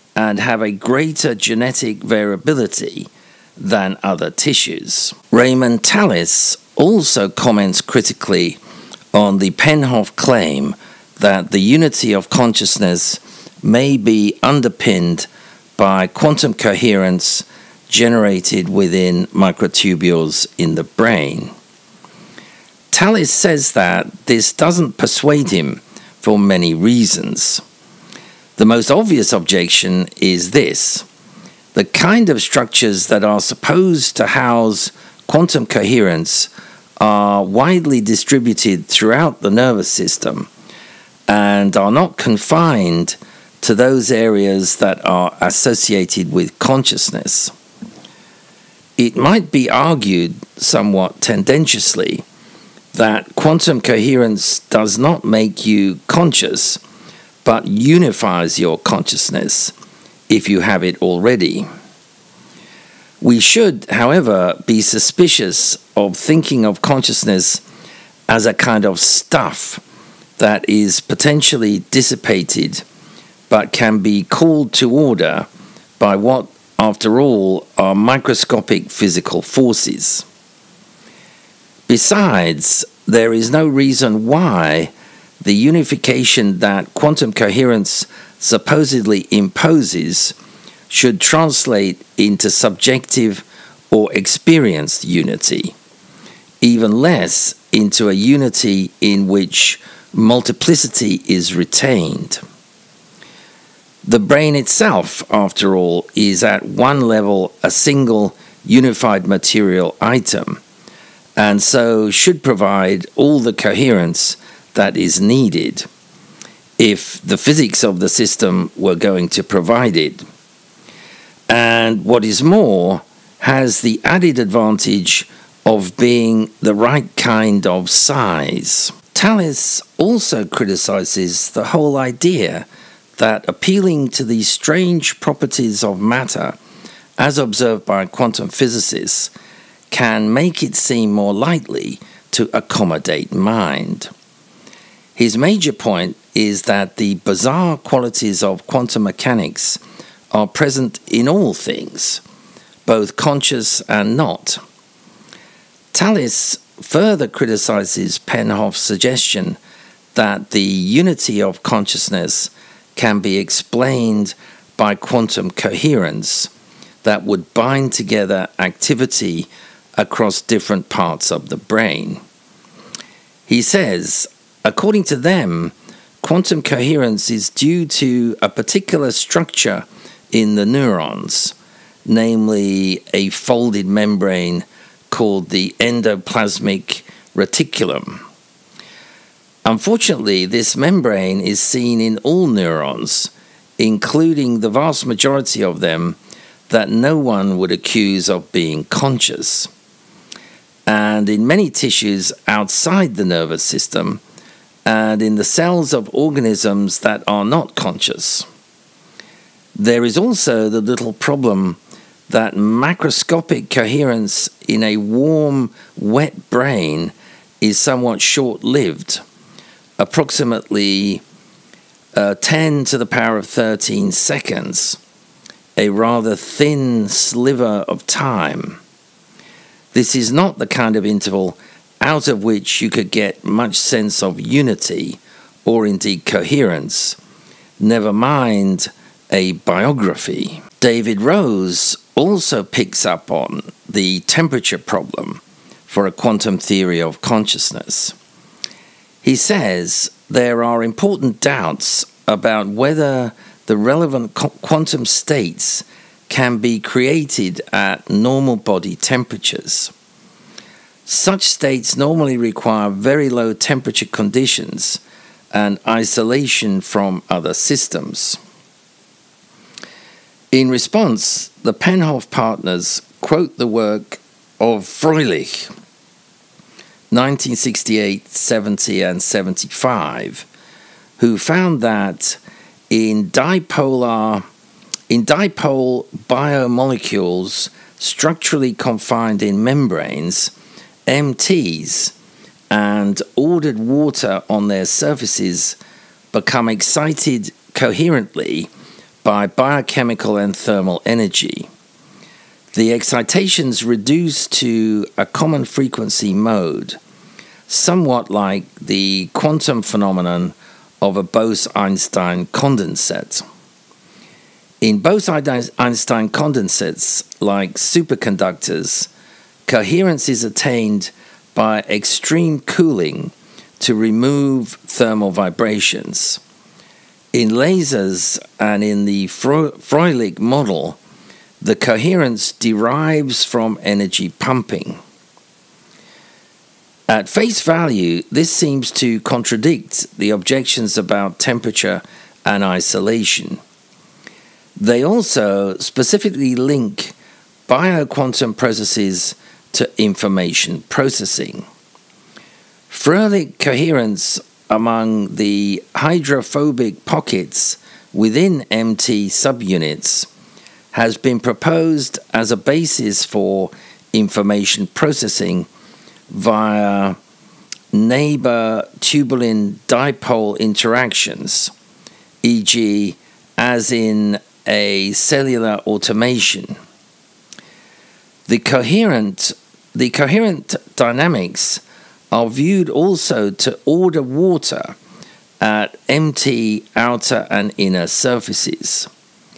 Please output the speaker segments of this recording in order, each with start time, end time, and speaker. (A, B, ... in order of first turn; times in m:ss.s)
0:00.2-0:08.6 A
0:09.1-0:21.5 A
0:22.9-0:27.6 A
0:28.6-0:31.0 A
0:31.7-0:40.5 A
0:41.3-0:47.5 A
0:49.0-0:52.2 A
0:52.9-0:56.8 A
0:57.4-0:59.7 A
1:00.3-1:01.7 A
1:03.2-1:07.6 A
1:08.3-1:09.8 A
1:10.4-1:12.8 A
1:13.5-1:15.5 A
1:16.0-1:20.2 A
1:21.9-1:30.3 A
1:30.9-1:35.7 A
1:36.6-1:42.4 A
1:44.0-1:50.6 A
1:51.4-1:55.8 A
1:56.8-2:00.2 A
2:01.5-2:12.6 A
2:13.2-2:16.6 A
2:17.2-2:19.3 A
2:19.9-2:24.1 A
2:25.2-2:29.8 A
2:30.3-2:32.2 A
2:32.8-2:34.6 A
2:35.9-2:39.6 A
2:40.1-2:46.5 A
2:47.0-2:52.2 A
2:53.5-3:01.5 A
3:02.0-3:08.2 A
3:09.6-3:16.2 A
3:16.7-3:19.7 A
3:20.9-3:24.2 A
3:24.8-3:28.4 A
3:29.7-3:39.2 A
3:40.0-3:41.2 A
3:42.1-3:45.0 A
3:45.8-3:48.8 A
3:49.9-3:57.2 A
3:57.8-4:08.1 A
4:09.2-4:19.9 A
4:21.0-4:25.0 A
4:25.5-4:28.4 A
4:30.5-4:35.7 A
4:37.1-4:40.5 A
4:41.2-4:42.4 A
4:42.9-4:44.4 A
4:45.1-4:50.5 A
4:51.1-4:52.1 A
4:52.7-4:55.8 A
4:56.3-4:58.7 A
4:59.2-5:01.7 A
5:02.7-5:07.0 A
5:07.7-5:13.4 A
5:14.8-5:19.1 A
5:19.7-5:26.4 A
5:27.3-5:31.0 A
5:31.6-5:35.0 A
5:37.1-5:43.6 A
5:44.8-5:47.1 A
5:47.7-5:51.6 A
5:52.9-6:00.3 A
6:00.9-6:05.7 A
6:06.3-6:07.2 A
6:07.9-6:11.7 A
6:12.4-6:16.8 A
6:18.5-6:25.0 A
6:25.6-6:29.1 A